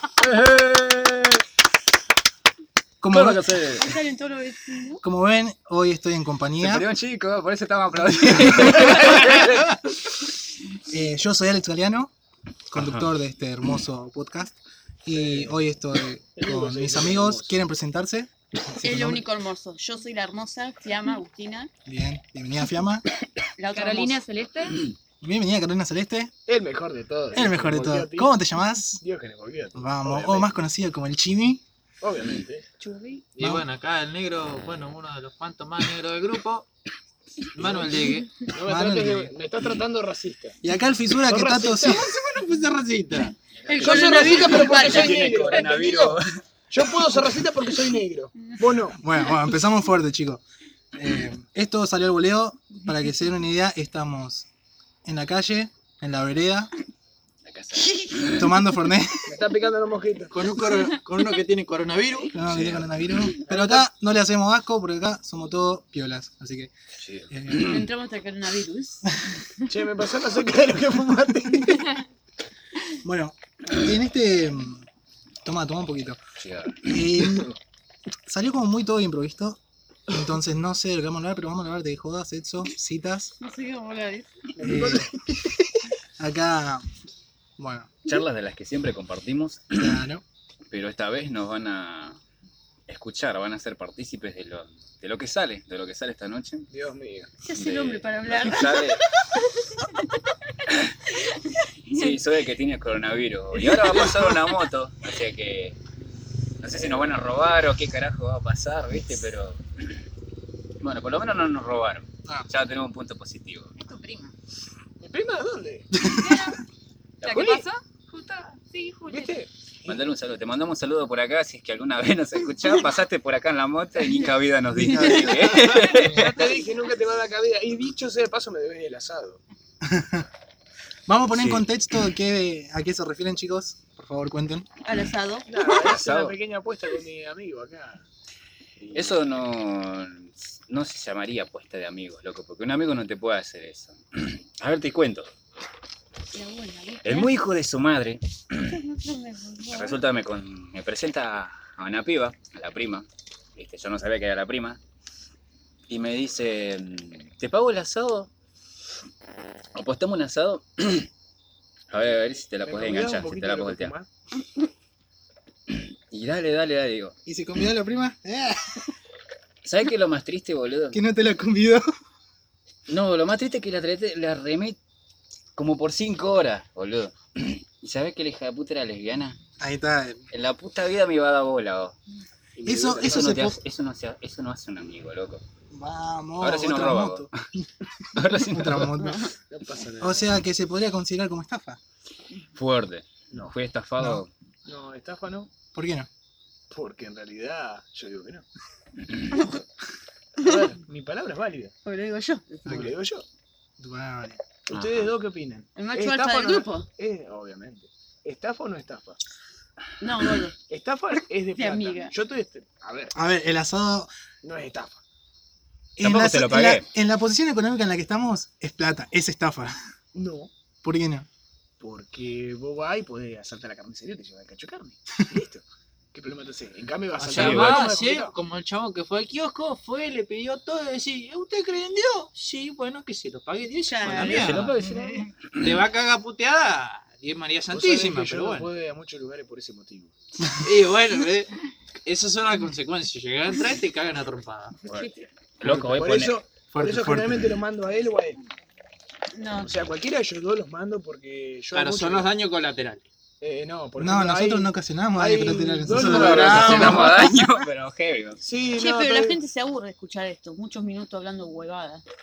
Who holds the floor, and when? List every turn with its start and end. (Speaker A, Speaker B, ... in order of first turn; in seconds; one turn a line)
Speaker A: 0.2-1.4
Speaker B: 3.0-3.5
Speaker A: 3.1-3.9
Speaker C: 3.8-5.0
Speaker B: 5.0-6.9
Speaker A: 6.6-10.2
Speaker B: 10.9-12.1
Speaker B: 12.7-19.2
Speaker A: 12.8-13.1
Speaker D: 15.1-15.6
Speaker D: 16.4-17.6
Speaker C: 18.8-21.7
Speaker B: 21.9-23.1
Speaker C: 23.6-24.2
Speaker E: 23.7-24.8
Speaker B: 25.2-26.3
Speaker D: 26.5-28.3
Speaker B: 27.3-29.0
Speaker D: 29.0-30.6
Speaker B: 29.8-31.6
Speaker D: 32.0-32.7
Speaker C: 32.8-33.2
Speaker F: 33.4-36.7
Speaker B: 33.4-33.6
Speaker F: 37.5-38.5
Speaker D: 38.5-40.6
Speaker B: 38.6-39.3
Speaker B: 40.6-42.1
Speaker D: 41.2-42.1
Speaker F: 42.1-43.3
Speaker A: 43.6-47.4
Speaker C: 43.7-45.5
Speaker D: 43.8-46.2
Speaker D: 46.7-49.0
Speaker B: 49.0-50.4
Speaker B: 51.0-54.5
Speaker B: 55.0-56.7
Speaker A: 57.5-58.6
Speaker B: 58.3-59.3
Speaker D: 59.3-60.5
Speaker F: 60.3-62.3
Speaker B: 62.3-66.7
Speaker A: 62.4-63.3
Speaker D: 63.5-63.9
Speaker A: 67.0-67.9
Speaker B: 67.3-67.8
Speaker C: 67.5-69.0
Speaker D: 69.7-71.9
Speaker B: 71.2-71.8
Speaker B: 73.0-74.8
Speaker B: 75.5-76.2
Speaker A: 76.4-77.2
Speaker B: 76.8-77.5
Speaker B: 78.3-83.3
Speaker C: 83.4-84.3
Speaker D: 84.6-85.1
Speaker B: 84.6-86.8
Speaker B: 87.6-87.9
Speaker A: 88.0-90.0
Speaker B: 89.7-90.2
Speaker A: 90.7-92.2
Speaker A: 92.9-96.7
Speaker D: 96.7-97.3
Speaker C: 97.4-99.0
Speaker A: 97.5-99.0
Speaker A: 101.9-105.8
Speaker A: 106.6-110.0
Speaker A: 110.8-113.7
Speaker E: 113.8-114.3
Speaker D: 115.0-116.0
Speaker E: 116.0-116.6
Speaker A: 117.2-117.5
Speaker E: 117.2-119.4
Speaker D: 117.3-117.6
Speaker D: 119.1-120.0
Speaker A: 119.9-126.6
Speaker B: 124.8-126.3
Speaker D: 125.7-129.4
Speaker B: 129.8-130.3
Speaker B: 131.1-134.7
Speaker A: 131.3-131.7
Speaker C: 134.8-135.7
Speaker D: 135.5-138.0
Speaker A: 135.7-136.3
Speaker D: 138.8-139.2
Speaker A: 138.9-145.3
Speaker C: 146.3-147.3
Speaker A: 147.0-148.8
Speaker C: 148.7-150.0
Speaker A: 149.7-154.8
Speaker A: 155.9-158.3
Speaker A: 159.8-161.1
Speaker A: 161.9-163.9
Speaker D: 162.6-164.1
Speaker A: 165.7-167.1
Speaker B: 167.3-168.8
Speaker A: 169.6-171.0
Speaker B: 170.9-171.9
Speaker A: 172.9-174.8
Speaker A: 175.6-179.4
Speaker B: 179.6-180.2
Speaker A: 180.3-182.0
Speaker D: 182.6-183.4
Speaker B: 182.6-183.6
Speaker A: 182.9-185.4
Speaker B: 185.7-187.7
Speaker A: 186.4-187.3
Speaker A: 188.1-189.0
Speaker B: 188.3-189.3
Speaker C: 189.0-189.3
Speaker D: 189.4-190.3
Speaker B: 190.0-191.8
Speaker A: 192.6-194.3
Speaker B: 194.0-194.2
Speaker D: 194.7-195.5
Speaker B: 195.7-196.1
Speaker D: 196.7-198.4
Speaker C: 199.3-199.6
Speaker D: 200.4-201.7
Speaker C: 201.8-202.9
Speaker D: 202.7-203.2
Speaker B: 203.8-204.4
Speaker D: 204.7-209.2
Speaker A: 204.7-205.1
Speaker C: 205.8-206.9
Speaker C: 210.0-210.6
Speaker D: 210.6-213.1
Speaker C: 211.6-212.1
Speaker B: 213.1-214.1
Speaker D: 214.4-215.0
Speaker B: 216.0-219.8
Speaker A: 216.0-216.9
Speaker D: 220.1-220.5
Speaker B: 220.8-221.3
Speaker D: 221.8-228.4
Speaker F: 227.2-234.8
Speaker A: 227.3-227.9
Speaker C: 233.8-234.7
Speaker A: 234.1-235.7
Speaker E: 234.8-235.3
Speaker F: 235.5-238.7
Speaker D: 237.7-240.1
Speaker F: 240.6-241.5
Speaker F: 242.1-244.8
Speaker A: 244.9-246.4
Speaker D: 245.7-248.4
Speaker B: 246.7-247.6
Speaker C: 249.3-249.8
Speaker D: 249.6-252.3
Speaker F: 251.7-253.0
Speaker D: 253.4-257.3
Speaker B: 254.0-257.2
Speaker A: 255.9-258.4
Speaker F: 256.3-256.8
Speaker D: 258.4-259.4
Speaker C: 258.8-262.0